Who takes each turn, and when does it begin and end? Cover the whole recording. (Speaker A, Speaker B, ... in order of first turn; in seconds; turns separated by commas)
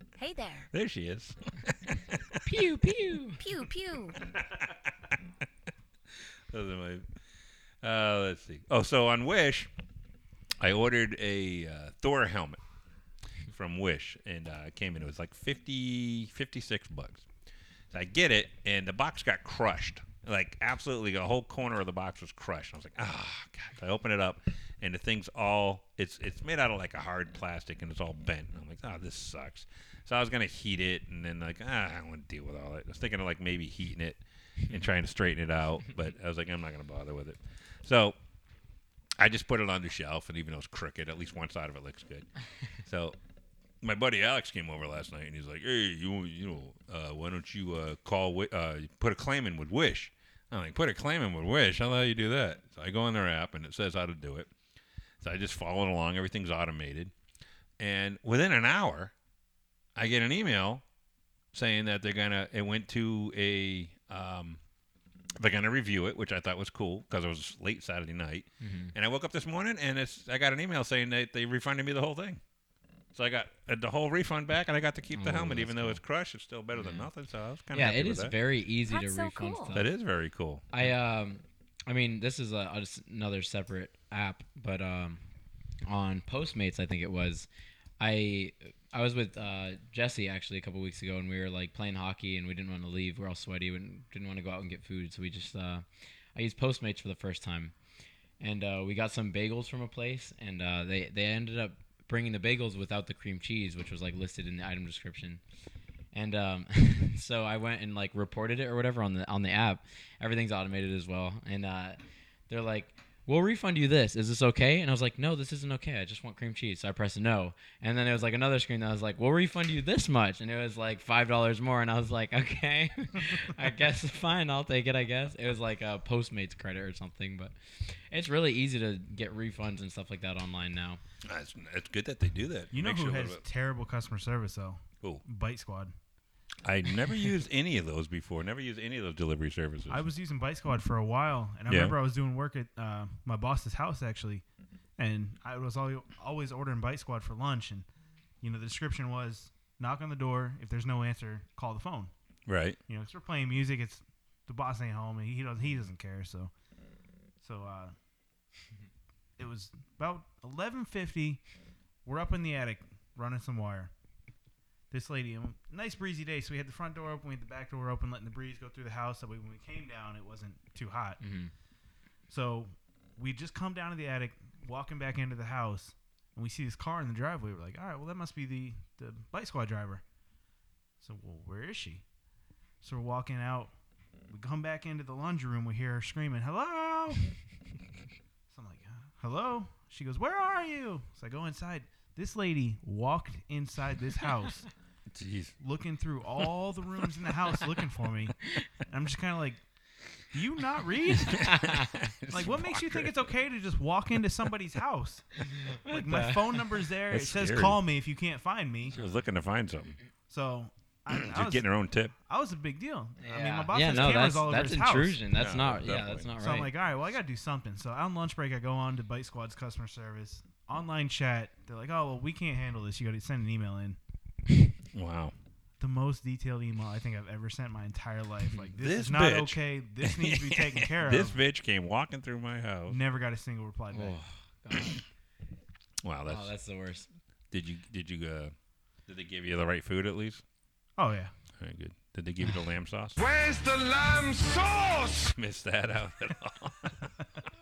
Speaker A: 0.2-0.7, Speaker B: 0.7-2.4, Speaker C: 2.4-3.4, Speaker A: 3.4-4.2, Speaker B: 4.3-5.3, Speaker B: 6.5-7.0, Speaker B: 7.8-9.7, Speaker B: 10.6-12.6, Speaker B: 13.5-17.2, Speaker B: 17.9-38.1, Speaker B: 39.2-42.3, Speaker B: 42.8-43.1, Speaker B: 43.8-54.5, Speaker B: 55.2-57.1, Speaker B: 57.8-59.1, Speaker B: 60.0-60.8, Speaker B: 61.5-64.6, Speaker B: 65.4-72.4, Speaker C: 68.6-68.9, Speaker B: 73.1-78.3, Speaker C: 75.1-76.0, Speaker C: 76.7-77.0, Speaker C: 77.7-79.9, Speaker A: 78.8-79.7, Speaker B: 79.7-80.7, Speaker C: 80.7-85.2, Speaker C: 85.8-87.5, Speaker C: 88.0-97.7, Speaker C: 98.4-105.4, Speaker C: 106.1-131.0, Speaker B: 131.2-133.4, Speaker D: 132.7-135.9, Speaker B: 136.6-140.0, Speaker D: 139.9-144.4, Speaker B: 141.7-141.9, Speaker D: 145.0-147.8, Speaker D: 148.4-152.1, Speaker B: 152.5-152.8, Speaker D: 152.9-156.5, Speaker D: 157.4-157.9, Speaker D: 159.4-161.4, Speaker D: 162.0-163.9, Speaker D: 164.9-171.2, Speaker C: 171.2-171.5, Speaker D: 172.3-180.0, Speaker D: 181.0-182.0, Speaker D: 182.8-183.7, Speaker D: 184.3-187.3, Speaker D: 188.5-194.7, Speaker B: 195.1-195.5, Speaker D: 195.6-199.6, Speaker D: 200.3-201.6, Speaker B: 201.1-203.3, Speaker C: 201.3-201.9, Speaker D: 202.3-209.0, Speaker C: 205.5-206.6, Speaker B: 207.1-207.8, Speaker B: 208.9-210.0, Speaker D: 210.3-211.7, Speaker B: 211.1-212.1, Speaker D: 212.3-215.2, Speaker C: 213.2-216.7, Speaker B: 215.3-216.3, Speaker D: 216.4-224.0, Speaker B: 224.9-225.3, Speaker D: 225.8-231.4, Speaker B: 228.8-233.0, Speaker D: 232.9-234.2, Speaker C: 233.9-235.0, Speaker B: 236.0-236.5, Speaker C: 236.3-237.1, Speaker B: 237.5-238.5, Speaker B: 239.1-240.4, Speaker D: 241.0-241.3, Speaker B: 241.6-243.2, Speaker E: 243.2-245.2, Speaker B: 245.0-247.1